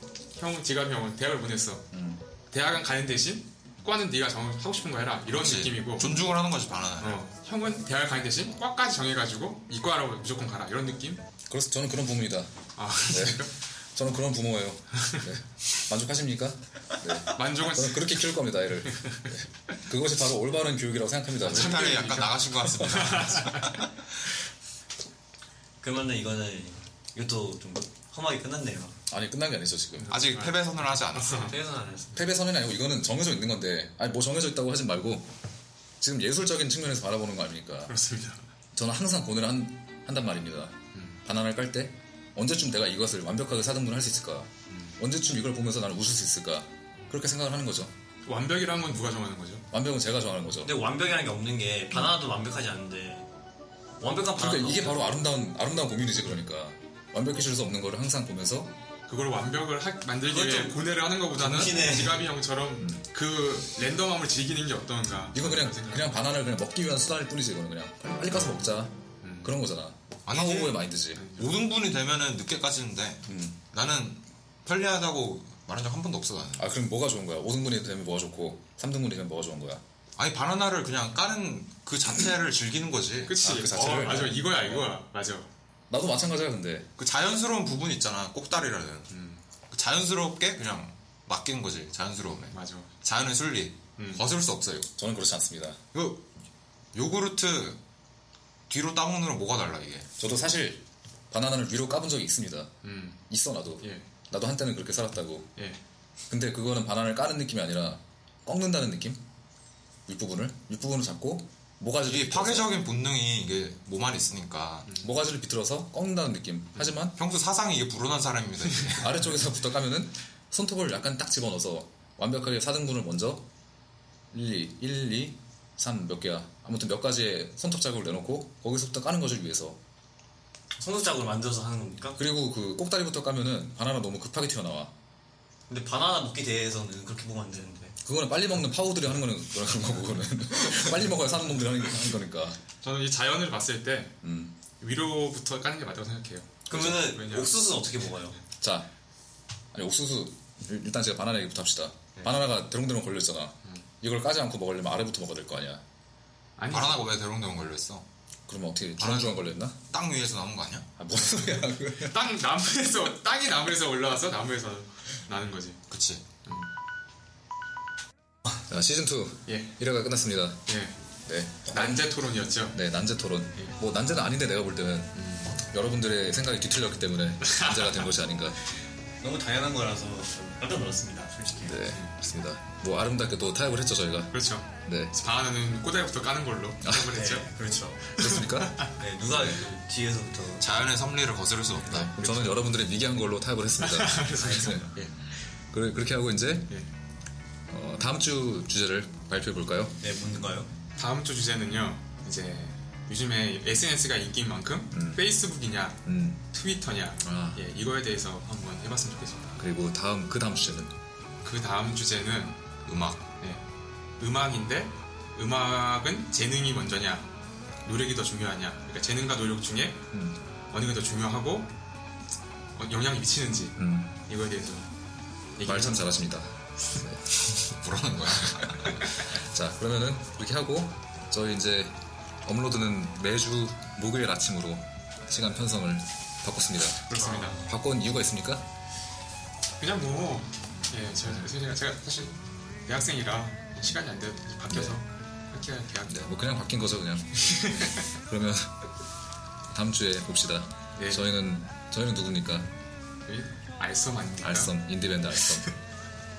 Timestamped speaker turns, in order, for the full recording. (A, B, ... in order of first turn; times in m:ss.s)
0:00.3-0:01.8 A
0:01.9-0:02.2 B
0:02.5-0:06.2 A
0:05.3-0:07.2 C
0:07.0-0:11.2 A
0:11.5-0:12.5 B
0:12.8-0:13.5 A
0:13.0-0:22.0 B
0:17.3-0:18.2 A
0:21.4-0:23.9 C
0:21.4-0:23.8 A
0:25.8-0:29.0 D
0:29.1-0:30.2 B
0:30.0-0:31.5 A
0:30.1-0:31.6 C
0:31.3-0:32.3 D
0:32.1-0:35.3 B
0:36.0-0:37.9 B
0:37.9-0:38.4 A
0:38.7-0:47.9 B
0:40.9-0:41.2 A
0:44.7-0:45.0 A
0:48.2-0:49.6 A
0:49.7-0:50.7 B
0:50.6-0:53.3 D
0:54.0-0:55.1 D
0:54.4-0:58.7 B
0:59.1-1:06.1 A
1:00.3-1:00.8 D
1:01.3-1:02.3 D
1:02.8-1:03.0 B
1:05.3-1:11.2 B
1:09.2-1:09.5 A
1:10.2-1:16.7 C
1:11.1-1:11.5 A
1:13.2-1:13.6 B
1:16.6-1:19.8 B
1:20.2-1:23.4 C
1:23.2-1:25.5 A
1:23.4-1:24.9 B
1:25.9-1:26.9 B
1:27.0-1:29.1 C
1:29.1-1:29.4 A
1:29.7-1:34.9 C
1:32.5-1:32.9 A
1:34.0-1:34.2 A
1:35.0-1:35.8 B
1:35.9-1:36.2 C
1:36.9-1:37.8 C
1:38.7-1:40.1 C
1:40.2-1:42.7 B
1:42.8-1:43.2 A
1:43.3-1:45.5 B
1:46.3-1:49.2 B
1:50.1-1:52.7 B
1:52.0-1:54.9 C
1:55.0-1:57.2 B
1:57.1-1:59.1 C
1:59.0-2:03.4 B
2:04.3-2:09.8 B
2:10.8-2:12.2 D
2:12.2-2:14.9 B
2:15.7-2:18.0 D
2:18.0-2:22.6 B
2:22.8-2:24.2 A
2:24.2-2:24.5 B
2:24.8-2:27.6 A
2:26.7-2:28.4 D
2:26.7-2:27.0 B
2:28.6-2:28.9 B
2:29.7-2:35.8 B
2:36.6-2:37.1 A
2:36.7-2:38.0 C
2:38.5-2:39.8 B
2:39.0-2:40.9 C
2:41.0-2:42.3 B
2:41.1-2:45.8 A
2:45.9-2:46.2 C
2:48.7-2:50.6 B
2:50.7-2:50.9 A
2:51.2-2:52.1 B
2:51.7-2:52.8 A
2:52.7-2:58.6 B
2:55.1-2:55.6 A
2:57.4-2:58.1 A
2:59.2-3:01.8 D
3:01.6-3:05.1 B
3:04.3-3:07.5 A
3:06.8-3:07.1 B
3:07.1-3:08.2 D
3:08.2-3:09.5 B
3:08.2-3:08.9 A
3:08.9-3:10.6 D
3:10.6-3:12.6 C
3:11.9-3:14.8 B
3:13.8-3:15.1 A
3:14.4-3:14.9 D
3:15.7-3:16.7 B
3:17.7-3:20.0 B
3:20.0-3:20.7 D
3:21.0-3:29.6 A
3:24.9-3:25.2 B
3:26.0-3:26.4 B
3:27.2-3:27.6 B
3:29.6-3:30.9 B
3:31.4-3:32.6 A
3:32.8-3:33.3 C
3:34.2-3:37.3 A
3:37.8-3:40.1 A
3:40.1-3:40.4 B
3:40.7-3:41.7 A
3:42.7-3:44.9 A
3:43.8-3:44.2 B
3:45.6-3:46.0 A
3:45.6-3:47.2 B
3:47.5-3:49.0 C
3:48.5-3:58.6 B
3:57.1-3:57.6 A
3:59.8-4:06.1 A
4:04.7-4:05.0 B
4:06.0-4:08.7 B
4:07.4-4:07.9 A
4:09.7-4:12.7 B
4:11.0-4:11.3 A
4:13.2-4:14.7 A
4:14.4-4:15.7 B